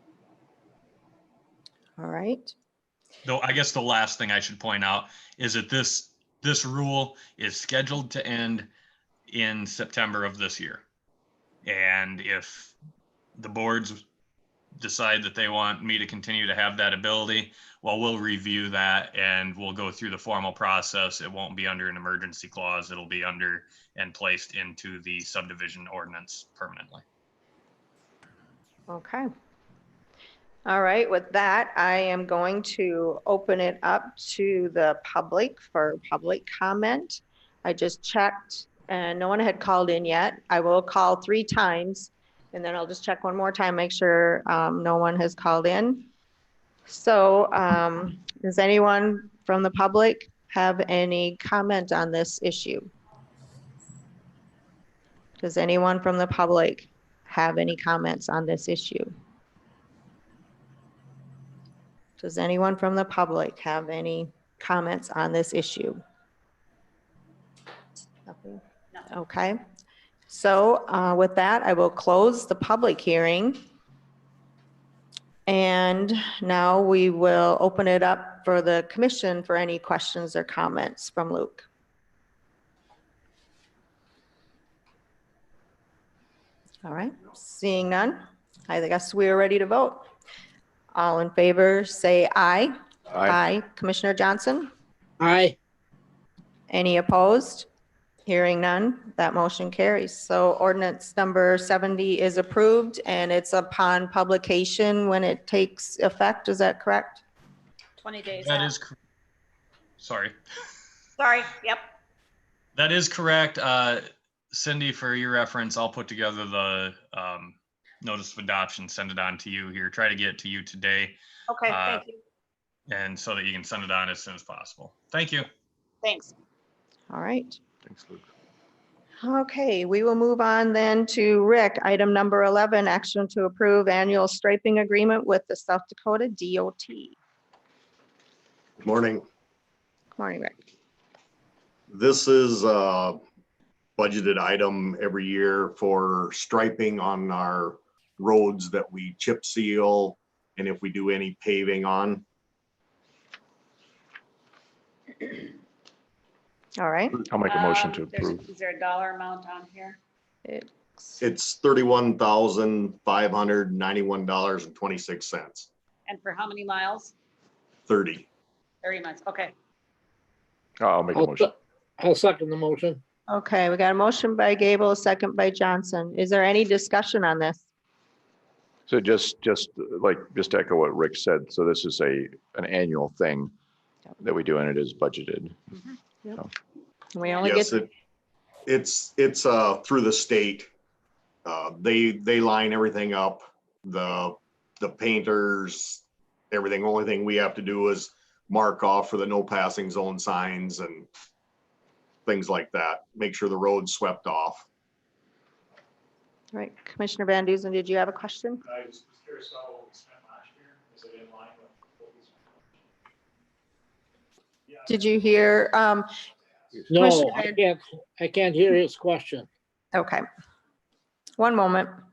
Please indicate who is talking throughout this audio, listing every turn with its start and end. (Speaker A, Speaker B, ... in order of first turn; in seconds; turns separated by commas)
Speaker A: 2.0-2.5, Speaker B: 3.2-8.7, Speaker B: 9.3-10.8, Speaker B: 11.6-12.7, Speaker B: 13.4-14.1, Speaker B: 14.8-27.0, Speaker A: 28.9-29.3, Speaker A: 30.7-46.1, Speaker A: 46.9-52.9, Speaker A: 55.4-59.1, Speaker A: 62.2-66.0, Speaker A: 68.3-69.6, Speaker A: 70.3-73.6, Speaker A: 75.5-81.7, Speaker A: 86.8-90.1, Speaker A: 90.9-94.7, Speaker C: 95.2-95.6, Speaker A: 96.7-97.7, Speaker A: 98.3-107.2, Speaker D: 108.0-108.7, Speaker B: 108.4-108.9, Speaker B: 110.0-110.4, Speaker D: 111.2-111.9, Speaker B: 112.8-122.0, Speaker A: 121.8-122.2, Speaker B: 122.9-125.5, Speaker D: 126.0-126.3, Speaker A: 127.1-127.6, Speaker E: 127.9-128.2, Speaker A: 129.2-137.2, Speaker F: 138.8-139.2, Speaker A: 140.2-140.6, Speaker F: 141.9-143.2, Speaker F: 144.0-152.2, Speaker A: 156.8-157.2, Speaker E: 157.4-158.3, Speaker D: 157.4-160.0, Speaker A: 160.4-161.2, Speaker F: 161.2-165.7, Speaker D: 166.1-167.1, Speaker F: 167.9-168.3, Speaker D: 168.8-169.5, Speaker E: 170.8-171.5, Speaker C: 171.2-173.0, Speaker A: 173.3-177.6, Speaker E: 178.9-183.5, Speaker E: 184.2-185.6, Speaker A: 187.1-187.8, Speaker D: 187.2-187.6, Speaker F: 187.4-187.9, Speaker F: 188.7-190.7, Speaker F: 191.4-201.1, Speaker F: 202.3-204.7, Speaker A: 206.5-208.6, Speaker G: 208.8-212.1, Speaker A: 214.8-216.1, Speaker A: 216.9-217.6, Speaker C: 216.9-219.5, Speaker A: 219.9-220.2, Speaker A: 221.4-221.9